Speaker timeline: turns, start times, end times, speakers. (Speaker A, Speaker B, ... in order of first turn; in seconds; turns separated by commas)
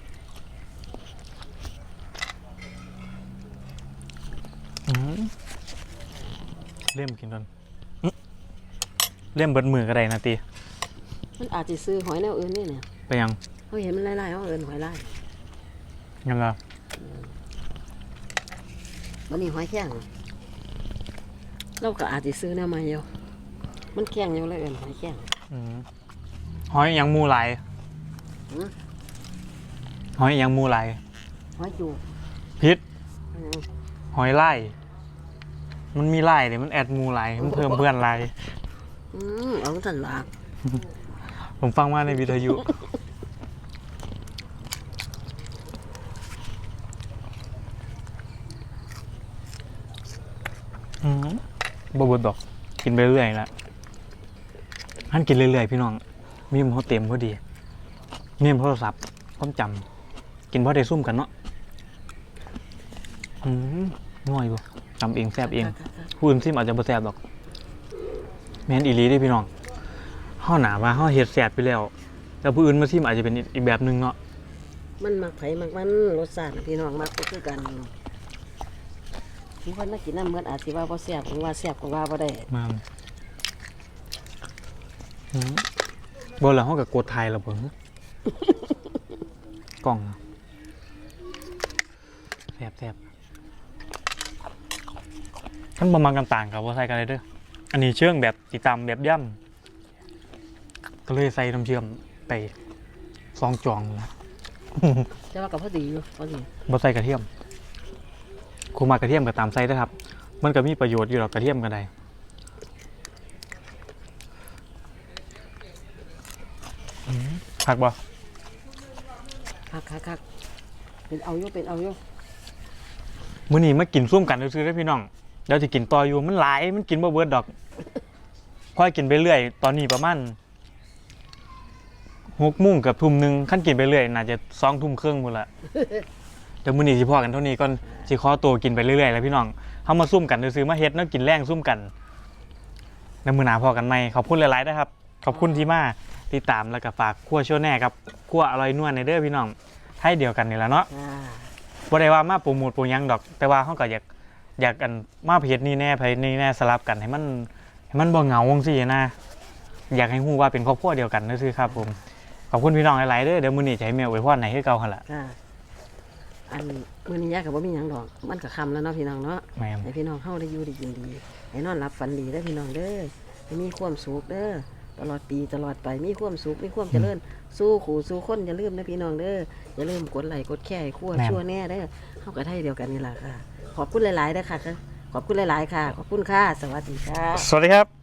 Speaker A: 4.9-5.3, Speaker A: 6.9-7.5, Speaker A: 9.3-10.4, Speaker B: 11.4-12.8, Speaker A: 13.1-13.4, Speaker B: 13.7-15.1, Speaker A: 16.2-16.6, Speaker B: 17.0-17.3, Speaker B: 19.3-20.1, Speaker B: 21.8-23.1, Speaker B: 23.9-25.3, Speaker A: 25.5-25.9, Speaker A: 26.7-27.6, Speaker A: 30.1-31.0, Speaker B: 31.6-32.0, Speaker B: 33.3-33.6, Speaker A: 34.1-34.7, Speaker A: 35.9-38.3, Speaker B: 39.1-40.3, Speaker A: 41.4-42.7, Speaker A: 51.0-53.5, Speaker A: 55.1-57.4, Speaker A: 58.4-59.9, Speaker A: 60.5-61.3, Speaker A: 63.4-67.2, Speaker B: 65.4-66.1, Speaker A: 68.7-69.5, Speaker A: 70.4-71.9, Speaker A: 72.4-74.2, Speaker B: 75.0-77.9, Speaker B: 79.6-82.5, Speaker A: 82.5-82.8, Speaker A: 85.3-85.7, Speaker A: 86.4-87.7, Speaker A: 89.8-90.2, Speaker A: 92.6-93.0, Speaker A: 95.8-99.4, Speaker A: 101.1-102.5, Speaker A: 103.3-104.1, Speaker A: 104.7-105.1, Speaker B: 105.3-106.5, Speaker A: 106.7-107.3, Speaker A: 108.7-111.9, Speaker A: 117.1-118.0, Speaker B: 119.7-120.2, Speaker B: 121.1-122.0, Speaker A: 123.5-127.5, Speaker A: 128.7-130.3, Speaker A: 132.3-135.5, Speaker A: 136.7-141.9, Speaker A: 143.2-150.9, Speaker B: 150.9-151.5, Speaker A: 151.9-154.0, Speaker A: 154.6-159.2, Speaker A: 159.9-162.0, Speaker A: 162.5-165.0, Speaker B: 165.1-165.4, Speaker B: 166.5-187.5, Speaker A: 169.6-169.9, Speaker A: 181.2-181.4, Speaker A: 187.3-187.9